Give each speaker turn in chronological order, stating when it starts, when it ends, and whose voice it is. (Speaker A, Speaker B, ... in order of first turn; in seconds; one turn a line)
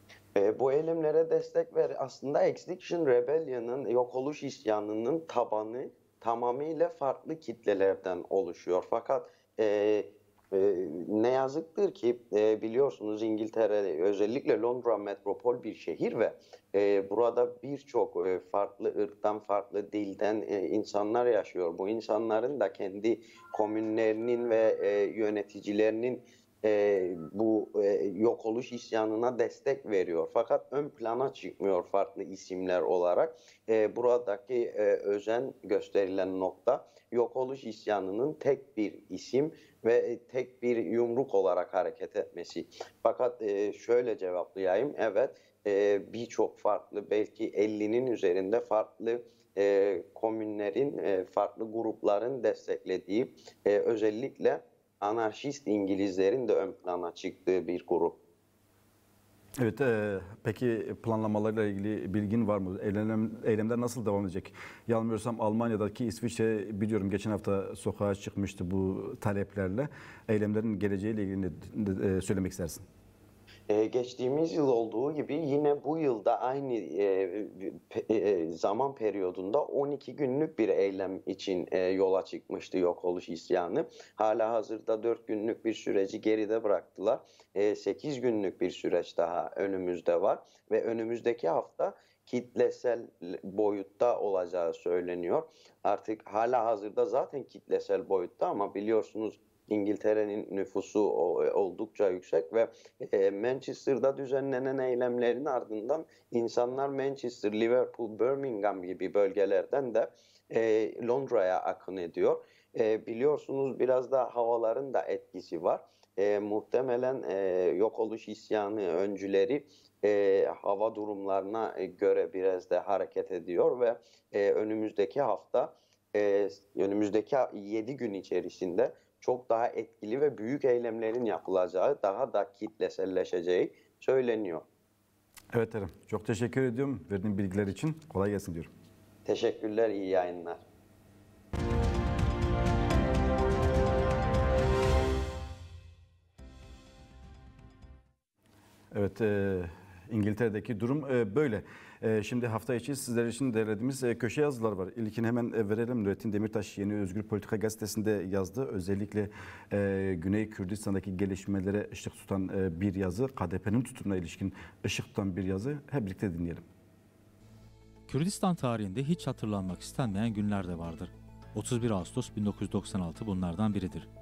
Speaker A: 0.3-58.2
Speaker B: 59.6-72.8
Speaker A: 73.7-134.7
Speaker B: 135.5-138.7
Speaker A: 139.3-140.6
Speaker B: 148.9-166.7
Speaker C: 168.1-174.1